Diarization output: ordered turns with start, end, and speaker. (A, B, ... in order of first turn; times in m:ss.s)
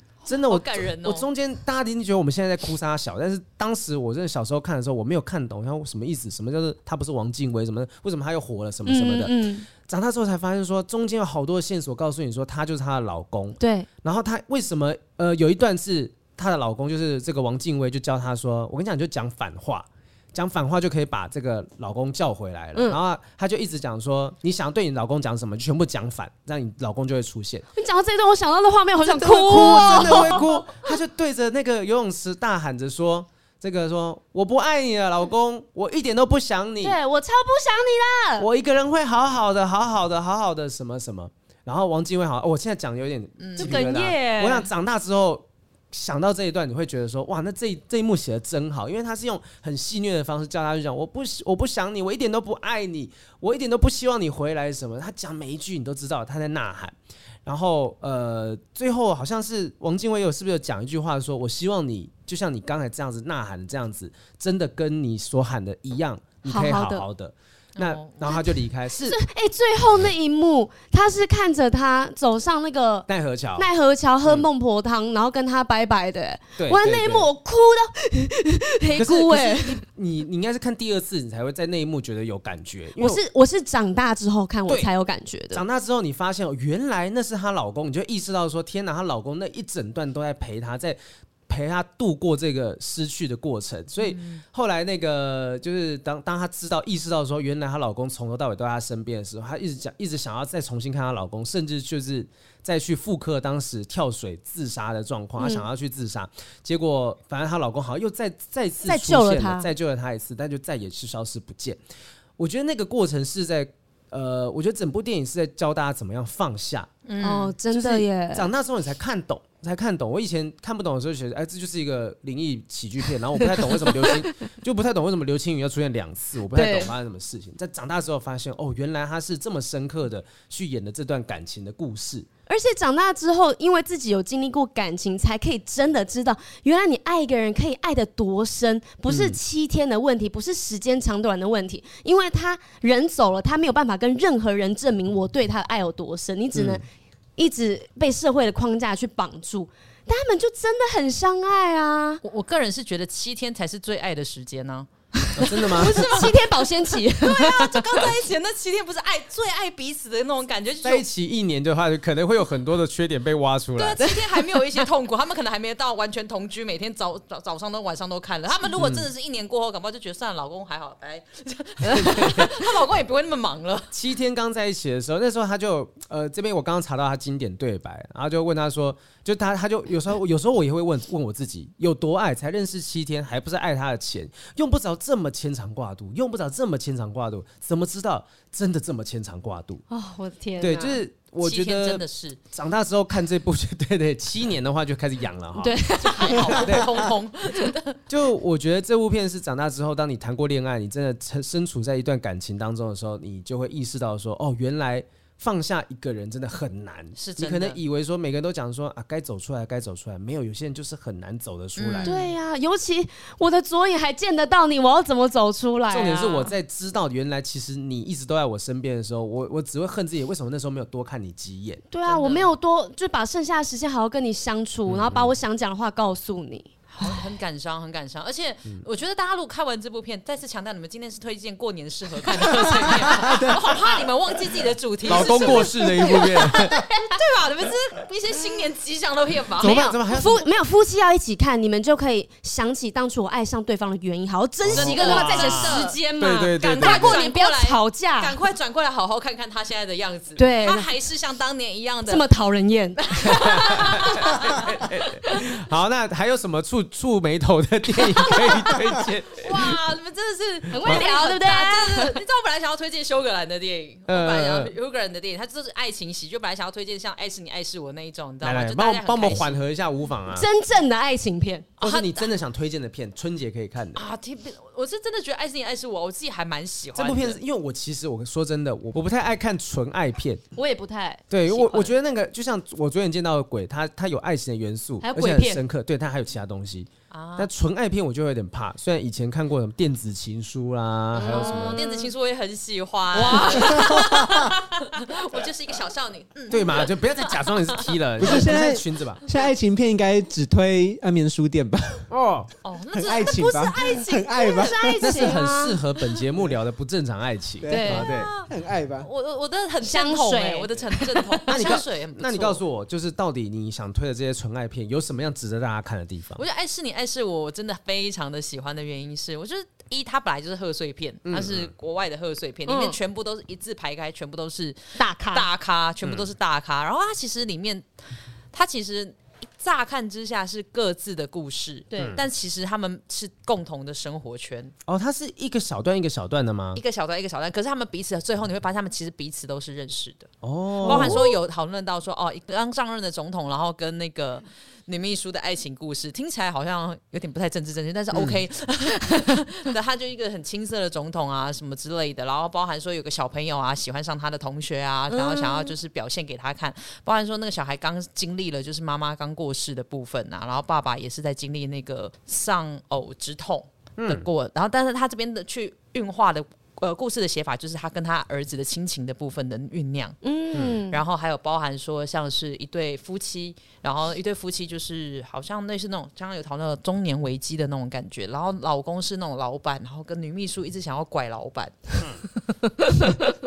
0:00.2-0:01.2 A
0:00.2-0:27.6 B
0:08.8-0:09.7 C
0:13.6-0:13.9 C
0:27.7-0:30.4 C
0:29.0-0:37.0 B
0:29.5-0:30.4 A
0:36.8-0:38.5 C
0:38.4-1:09.2 B
0:43.4-0:43.8 A
0:43.6-0:44.7 C
1:06.4-1:07.0 C
1:07.8-1:08.4 A
1:09.0-1:19.8 C
1:13.1-1:13.7 B
1:16.6-1:17.3 B
1:18.9-1:23.2 B
1:23.0-1:25.6 C
1:25.5-1:51.8 B
1:34.0-1:34.4 A
1:45.4-1:45.6 C
1:48.8-1:49.7 C
1:52.4-1:56.9 B
1:57.0-1:57.6 A
1:57.2-1:58.5 C
1:57.7-2:12.3 B
2:03.6-2:04.2 C
2:06.5-2:06.9 C
2:12.5-2:26.8 C
2:19.1-2:19.4 B
2:26.5-2:26.8 B
2:27.4-2:32.2 C
2:32.2-2:36.4 A
2:35.3-2:36.1 B
2:35.4-2:38.1 C
2:36.9-2:41.0 A
2:40.8-2:44.0 B
2:43.8-2:53.9 A
2:44.0-2:44.8 C
2:48.7-2:49.1 B
2:51.9-2:52.5 B
2:53.9-3:09.8 B
3:09.9-3:11.0 C
3:10.6-3:15.8 B
3:11.4-3:12.4 A
3:15.6-3:17.0 C
3:16.0-3:18.0 A
3:16.5-3:16.9 B
3:18.1-3:32.2 B
3:27.2-3:27.8 A
3:31.8-3:32.3 A
3:32.0-3:36.5 C
3:35.9-3:41.9 B
3:41.9-3:47.2 C
3:42.0-3:42.5 A
3:44.9-3:45.3 B
3:46.9-3:59.9 A
3:55.0-3:56.8 B
3:55.1-3:57.1 C
3:59.6-4:00.4 B
3:59.6-4:08.3 C
4:04.6-4:07.2 B
4:04.7-4:06.0 A
4:06.6-4:12.2 A
4:10.4-4:10.9 C
4:12.1-4:14.7 C
4:13.2-4:14.7 A
4:13.2-4:19.7 B
4:19.4-4:29.6 A
4:20.7-4:22.2 C
4:24.1-4:24.7 B
4:28.4-4:30.5 B
4:30.3-4:31.7 C
4:31.8-4:32.3 A
4:31.8-4:34.0 B
4:34.0-4:37.4 A
4:36.9-4:40.4 B
4:40.5-4:41.2 C
4:41.3-4:51.8 B
4:41.5-4:41.9 A
4:45.0-4:45.6 C
4:47.1-4:47.5 A
4:51.2-4:52.1 C
4:51.3-4:58.4 A
4:53.1-4:54.3 C
4:53.7-4:54.4 D
4:56.5-4:59.2 B
4:58.2-5:02.1 D
5:02.1-5:02.5 B
5:02.6-5:04.7 A
5:02.9-5:05.3 D
5:03.1-5:05.8 C
5:05.0-5:08.3 B
5:07.6-5:09.1 D
5:07.7-5:08.2 C
5:07.8-5:08.5 A
5:09.0-5:12.6 A
5:09.8-5:11.7 C
5:11.5-5:16.4 B
5:16.4-5:27.8 A
5:21.2-5:21.7 B
5:22.6-5:23.0 C
5:25.0-5:25.5 C
5:28.5-5:34.7 A
5:32.0-5:32.2 B
5:34.9-5:36.8 B
5:36.8-5:40.3 A
5:40.4-5:41.2 B
5:40.8-5:41.4 C
5:40.8-6:10.2 A
5:48.1-5:48.4 B
5:55.1-5:55.7 C
6:04.0-6:04.2 B
6:10.2-6:11.0 C
6:10.9-6:22.0 A
6:22.8-6:23.3 C